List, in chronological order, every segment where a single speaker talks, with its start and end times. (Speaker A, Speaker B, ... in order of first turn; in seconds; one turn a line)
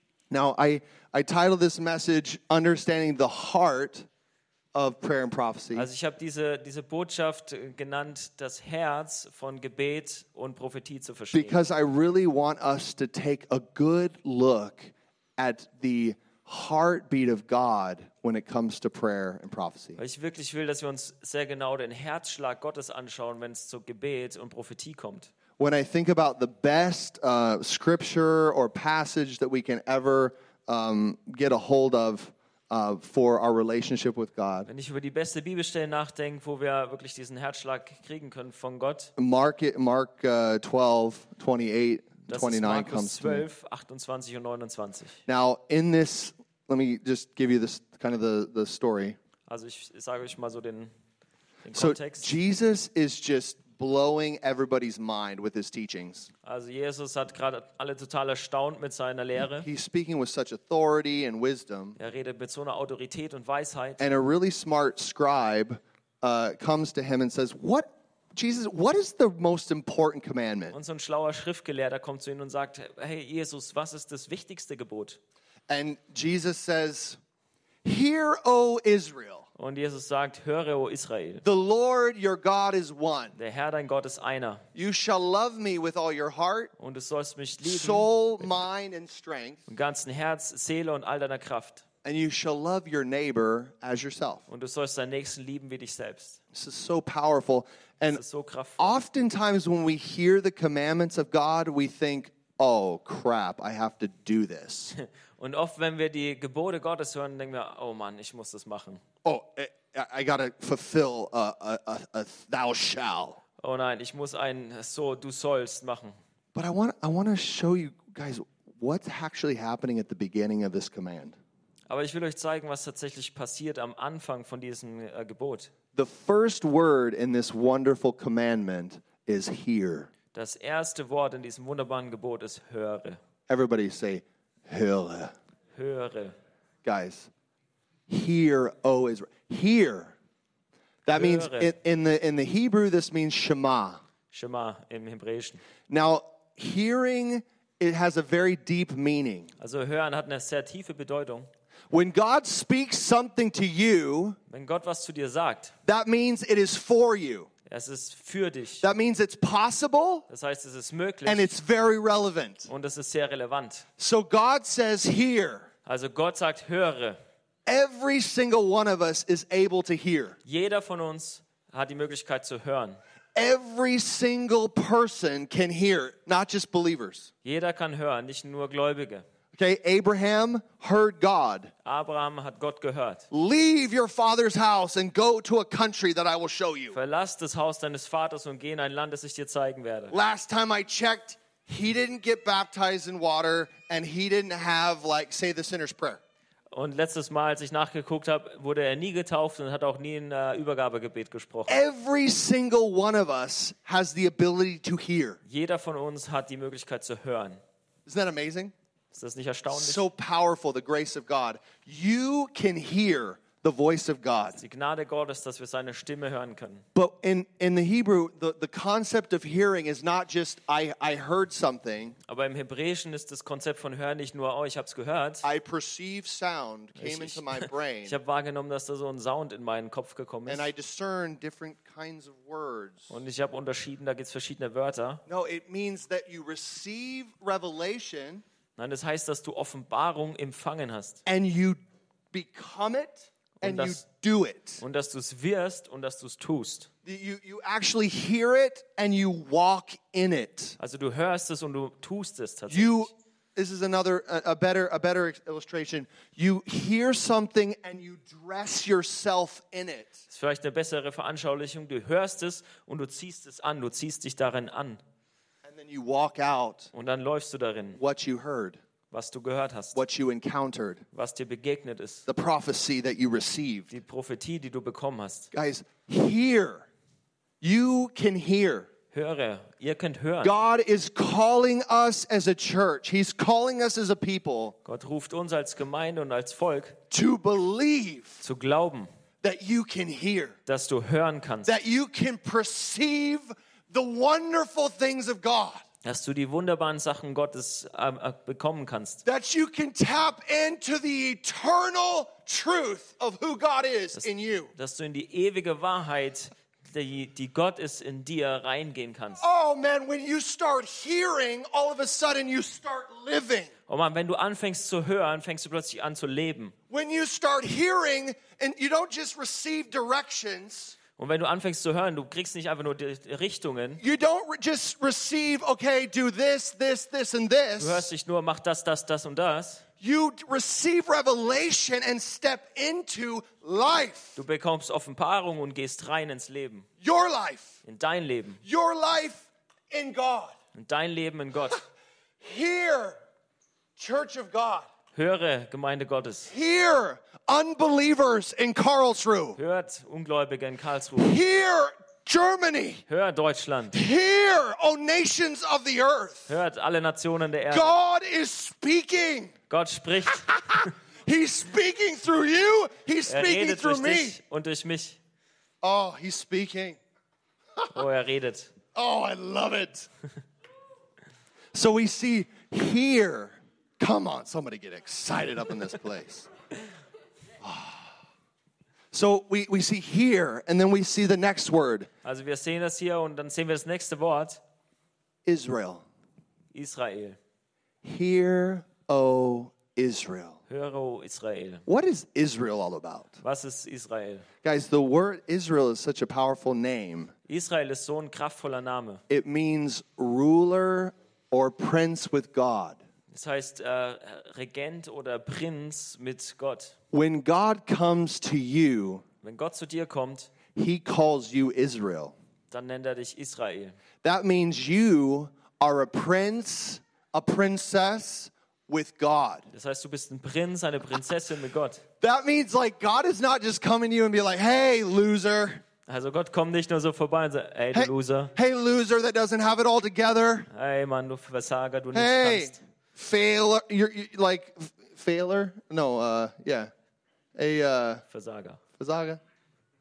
Speaker A: 0.3-4.1
Speaker A: 4.7-5.9
Speaker B: 5.7-11.6
Speaker A: 11.3-20.0
Speaker B: 20.0-25.3
Speaker A: 25.6-34.7
Speaker B: 34.7-39.1
Speaker A: 39.2-43.5
Speaker B: 42.3-45.2
Speaker A: 45.3-49.2
Speaker B: 49.5-50.9
Speaker B: 51.6-52.3
Speaker A: 51.7-56.3
Speaker B: 56.4-59.7
Speaker A: 59.6-62.0
Speaker B: 62.0-64.0
Speaker A: 64.0-70.8
Speaker B: 70.7-75.2
Speaker A: 75.7-77.2
Speaker A: 77.8-79.5
Speaker B: 79.6-81.4
Speaker A: 81.4-83.3
Speaker B: 83.3-84.7
Speaker A: 84.7-86.7
Speaker B: 86.8-88.5
Speaker A: 87.6-89.7
Speaker B: 89.7-91.8
Speaker A: 92.0-94.4
Speaker B: 94.5-96.4
Speaker A: 96.5-98.2
Speaker B: 98.1-98.9
Speaker A: 98.8-104.9
Speaker B: 105.0-109.0
Speaker A: 109.2-113.4
Speaker B: 113.6-116.2
Speaker A: 116.5-121.3
Speaker B: 121.9-125.7
Speaker A: 125.9-130.1
Speaker B: 130.3-133.2
Speaker A: 133.5-135.3
Speaker B: 135.7-136.3
Speaker A: 136.8-137.3
Speaker A: 138.1-140.1
Speaker A: 141.1-144.0
Speaker B: 141.1-141.7
Speaker B: 144.3-145.6
Speaker A: 145.9-149.5
Speaker B: 149.6-151.5
Speaker A: 151.9-154.4
Speaker B: 154.5-155.7
Speaker A: 155.8-157.5
Speaker B: 157.7-158.8
Speaker A: 158.8-160.2
Speaker B: 160.3-161.5
Speaker A: 161.2-162.7
Speaker B: 162.7-163.8
Speaker A: 164.0-165.7
Speaker B: 165.8-167.2
Speaker A: 167.7-170.3
Speaker B: 170.4-173.0
Speaker A: 173.3-177.3
Speaker B: 177.4-179.2
Speaker A: 179.5-181.7
Speaker B: 181.8-183.3
Speaker A: 183.3-187.0
Speaker B: 186.9-190.1
Speaker A: 190.1-196.2
Speaker B: 196.7-201.7
Speaker A: 201.7-205.4
Speaker B: 205.5-207.6
Speaker A: 208.1-208.7
Speaker B: 209.1-210.0
Speaker A: 209.7-214.6
Speaker B: 214.6-216.8
Speaker A: 216.9-222.2
Speaker B: 222.3-225.4
Speaker A: 225.4-228.2
Speaker B: 227.0-230.7
Speaker A: 230.4-233.1
Speaker B: 233.1-235.2
Speaker A: 235.3-238.4
Speaker B: 238.8-241.2
Speaker A: 241.2-241.8
Speaker A: 242.3-244.8
Speaker B: 243.6-244.0
Speaker B: 244.8-246.9
Speaker A: 247.0-250.8
Speaker B: 250.8-253.1
Speaker A: 252.7-260.2
Speaker B: 260.3-265.0
Speaker A: 265.6-266.9
Speaker B: 266.9-268.0
Speaker A: 267.9-268.8
Speaker B: 269.1-270.0
Speaker A: 269.9-271.0
Speaker B: 271.1-272.2
Speaker A: 272.2-273.9
Speaker B: 273.9-275.5
Speaker A: 275.5-276.9
Speaker A: 277.6-278.9
Speaker B: 279.1-280.5
Speaker A: 280.4-284.7
Speaker B: 284.8-287.0
Speaker A: 287.1-288.4
Speaker B: 288.4-289.1
Speaker A: 289.4-290.6
Speaker B: 290.6-291.7
Speaker A: 291.6-295.8
Speaker B: 296.0-299.2
Speaker A: 299.2-304.7
Speaker B: 304.2-309.4
Speaker A: 309.4-313.7
Speaker B: 313.9-316.7
Speaker A: 316.9-320.9
Speaker B: 321.2-324.0
Speaker A: 324.0-328.1
Speaker B: 327.8-329.8
Speaker A: 330.0-334.4
Speaker B: 334.4-336.9
Speaker A: 337.0-337.7
Speaker B: 337.8-338.6
Speaker A: 338.6-340.5
Speaker B: 340.7-341.8
Speaker A: 342.4-343.2
Speaker A: 344.0-344.9
Speaker B: 345.1-346.5
Speaker A: 346.5-349.6
Speaker B: 349.6-351.4
Speaker A: 351.1-353.0
Speaker B: 353.1-354.0
Speaker A: 353.9-356.5
Speaker B: 356.5-358.0
Speaker A: 357.7-359.5
Speaker B: 359.7-360.9
Speaker A: 360.4-364.4
Speaker B: 363.3-365.2
Speaker A: 365.8-367.0
Speaker B: 367.9-368.7
Speaker A: 368.9-370.1
Speaker A: 371.7-376.5
Speaker A: 377.6-378.1
Speaker A: 379.1-382.1
Speaker B: 382.2-384.6
Speaker A: 385.4-386.0
Speaker B: 386.7-387.4
Speaker A: 388.0-390.6
Speaker B: 390.7-391.8
Speaker A: 391.9-393.4
Speaker B: 393.4-394.4
Speaker A: 394.6-397.3
Speaker B: 397.5-399.2
Speaker A: 399.3-403.0
Speaker B: 403.3-406.9
Speaker A: 407.1-409.2
Speaker B: 409.4-410.5
Speaker A: 410.7-412.3
Speaker B: 412.7-413.9
Speaker A: 414.2-419.6
Speaker B: 419.7-422.0
Speaker A: 422.2-425.8
Speaker B: 426.1-428.5
Speaker A: 427.9-430.7
Speaker B: 430.7-432.8
Speaker A: 432.1-436.9
Speaker A: 437.6-438.2
Speaker B: 438.3-438.8
Speaker A: 439.0-439.4